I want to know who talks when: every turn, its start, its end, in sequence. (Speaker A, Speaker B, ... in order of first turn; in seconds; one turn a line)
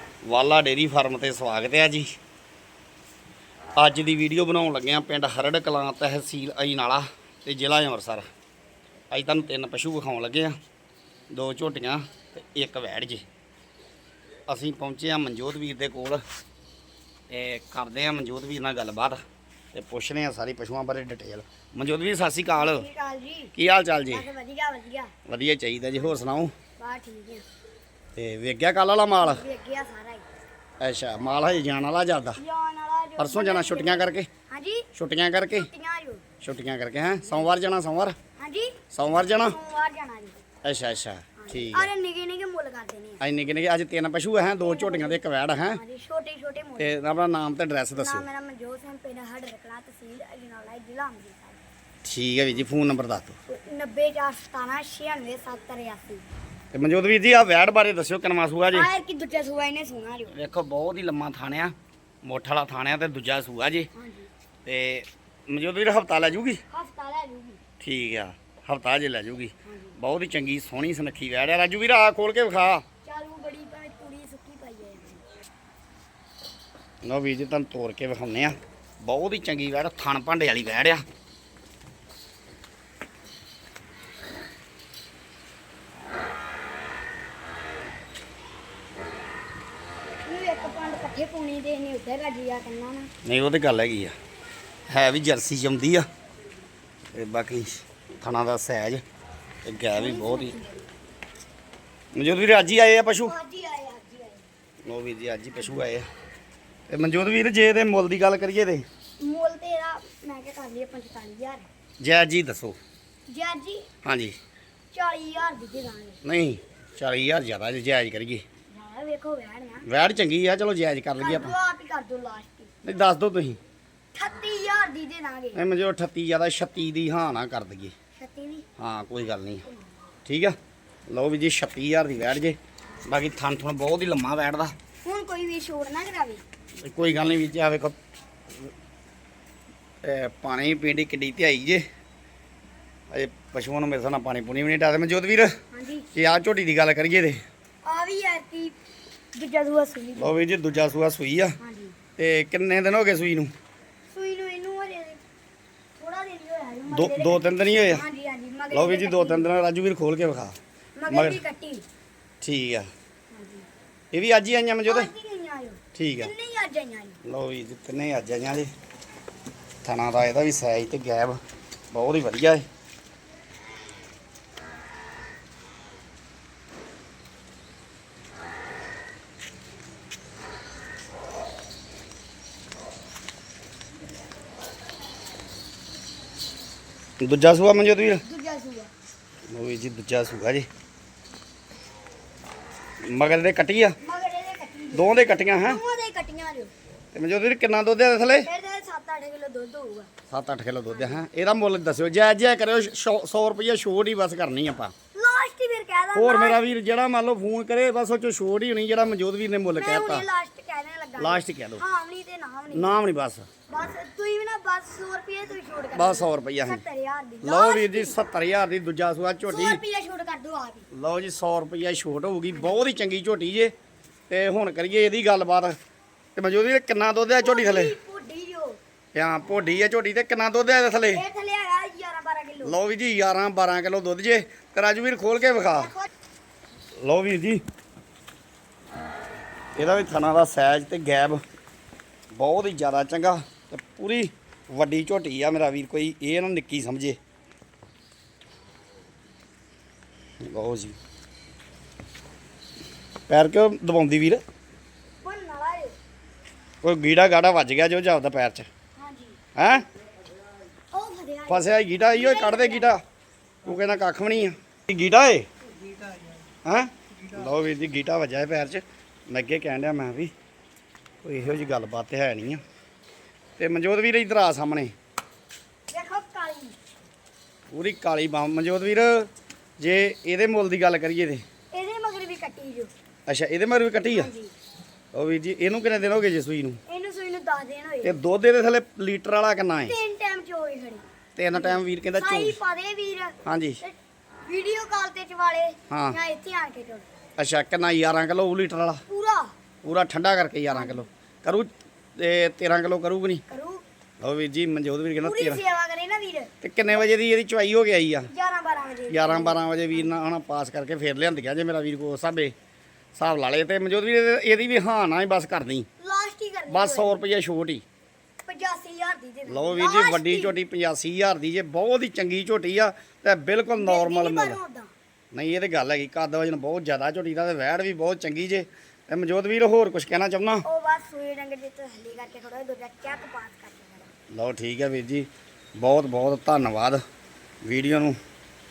Speaker A: 0.2-2.1
Speaker A: 3.8-8.3
Speaker A: 9.1-10.5
Speaker A: 11.3-13.2
Speaker A: 14.5-16.2
Speaker A: 17.3-22.9
Speaker B: 22.5-23.5
Speaker A: 23.5-24.3
Speaker B: 24.1-25.1
Speaker A: 25.3-26.5
Speaker B: 26.8-27.4
Speaker A: 28.1-29.4
Speaker B: 29.2-30.2
Speaker A: 30.8-32.4
Speaker B: 32.4-34.9
Speaker A: 33.2-34.3
Speaker A: 34.9-35.7
Speaker B: 35.5-36.2
Speaker A: 36.4-38.1
Speaker B: 38.4-38.8
Speaker A: 38.9-39.5
Speaker B: 39.4-40.4
Speaker A: 40.6-41.9
Speaker B: 41.4-43.2
Speaker A: 43.2-45.8
Speaker B: 44.6-45.2
Speaker B: 45.7-47.0
Speaker A: 46.8-48.2
Speaker B: 47.9-51.6
Speaker A: 52.0-53.3
Speaker B: 53.5-56.2
Speaker A: 56.7-58.9
Speaker B: 58.7-60.3
Speaker A: 60.3-63.9
Speaker B: 63.9-64.3
Speaker A: 64.6-66.6
Speaker B: 66.7-67.6
Speaker A: 67.8-72.8
Speaker B: 69.6-69.9
Speaker B: 73.0-75.2
Speaker A: 77.0-81.0
Speaker B: 90.2-93.1
Speaker A: 93.2-94.1
Speaker A: 94.9-96.1
Speaker A: 97.1-99.0
Speaker A: 99.6-100.5
Speaker B: 99.9-100.8
Speaker A: 102.1-103.3
Speaker B: 103.1-104.5
Speaker A: 104.8-106.1
Speaker A: 106.9-108.8
Speaker B: 109.2-111.7
Speaker A: 112.0-112.8
Speaker B: 113.3-113.9
Speaker A: 114.0-114.3
Speaker B: 114.9-116.2
Speaker A: 116.2-118.4
Speaker B: 118.7-119.9
Speaker A: 119.8-121.5
Speaker B: 121.2-122.7
Speaker A: 122.8-123.6
Speaker B: 124.1-125.6
Speaker A: 125.5-127.9
Speaker B: 128.2-128.6
Speaker A: 128.8-129.6
Speaker A: 130.2-130.6
Speaker A: 131.1-134.8
Speaker B: 135.0-136.4
Speaker A: 136.8-137.9
Speaker A: 140.0-141.8
Speaker A: 143.1-145.6
Speaker B: 145.7-146.1
Speaker A: 146.1-147.4
Speaker B: 147.8-148.8
Speaker B: 149.3-150.3
Speaker A: 150.2-151.6
Speaker B: 151.6-151.9
Speaker A: 152.2-153.5
Speaker B: 154.1-155.2
Speaker B: 156.0-159.4
Speaker A: 156.9-158.0
Speaker A: 158.7-160.6
Speaker B: 160.9-161.8
Speaker A: 161.1-161.4
Speaker A: 162.4-162.9
Speaker B: 163.3-163.7
Speaker A: 164.1-165.1
Speaker B: 164.8-167.2
Speaker A: 165.9-166.3
Speaker A: 167.2-168.7
Speaker A: 169.8-171.4
Speaker A: 171.9-172.7
Speaker A: 187.2-188.2
Speaker B: 188.2-188.9
Speaker A: 189.5-190.7
Speaker A: 193.0-194.0
Speaker B: 194.0-196.7
Speaker A: 194.9-195.8
Speaker A: 197.1-198.5
Speaker B: 198.4-200.1
Speaker A: 200.3-204.9
Speaker B: 200.9-201.2
Speaker B: 205.1-206.6
Speaker A: 206.1-210.2
Speaker B: 209.7-213.0
Speaker A: 211.2-211.8
Speaker A: 212.7-213.5
Speaker B: 213.7-218.2
Speaker A: 215.9-216.8
Speaker A: 217.4-219.8
Speaker B: 219.5-220.9
Speaker A: 220.9-223.7
Speaker B: 222.5-222.8
Speaker A: 224.3-225.8
Speaker A: 226.3-227.9
Speaker B: 227.4-228.8
Speaker A: 229.1-231.2
Speaker B: 231.1-232.8
Speaker A: 232.6-235.9
Speaker B: 235.8-236.1
Speaker A: 237.0-237.6
Speaker A: 239.8-241.4
Speaker A: 242.3-247.2
Speaker A: 250.4-251.0
Speaker A: 253.3-254.4
Speaker B: 255.2-255.9
Speaker A: 256.8-258.7
Speaker B: 258.9-259.4
Speaker A: 259.5-259.9
Speaker B: 260.9-262.9
Speaker A: 261.5-263.0
Speaker A: 263.6-265.5
Speaker A: 266.6-270.3
Speaker A: 271.2-272.6
Speaker A: 273.6-274.9
Speaker B: 275.9-276.7
Speaker A: 277.7-281.4
Speaker B: 281.7-282.9
Speaker A: 283.3-284.3
Speaker B: 284.1-284.5
Speaker A: 285.1-286.8
Speaker B: 286.9-288.1
Speaker A: 288.0-289.9
Speaker B: 289.8-297.1
Speaker A: 291.4-292.6
Speaker A: 293.4-293.8
Speaker A: 295.9-296.2
Speaker A: 297.4-299.0
Speaker B: 299.1-299.5
Speaker A: 299.8-303.4
Speaker B: 300.7-301.1
Speaker B: 303.5-303.8
Speaker A: 304.2-305.6
Speaker B: 305.2-306.5
Speaker A: 306.6-308.3
Speaker B: 308.3-310.1
Speaker A: 309.1-312.5
Speaker A: 313.1-315.9
Speaker B: 316.0-317.1
Speaker A: 316.7-317.8
Speaker B: 318.4-320.6
Speaker A: 319.5-324.6
Speaker B: 323.7-324.9
Speaker A: 325.3-330.6
Speaker B: 330.6-334.1
Speaker A: 334.3-337.0
Speaker A: 337.6-338.2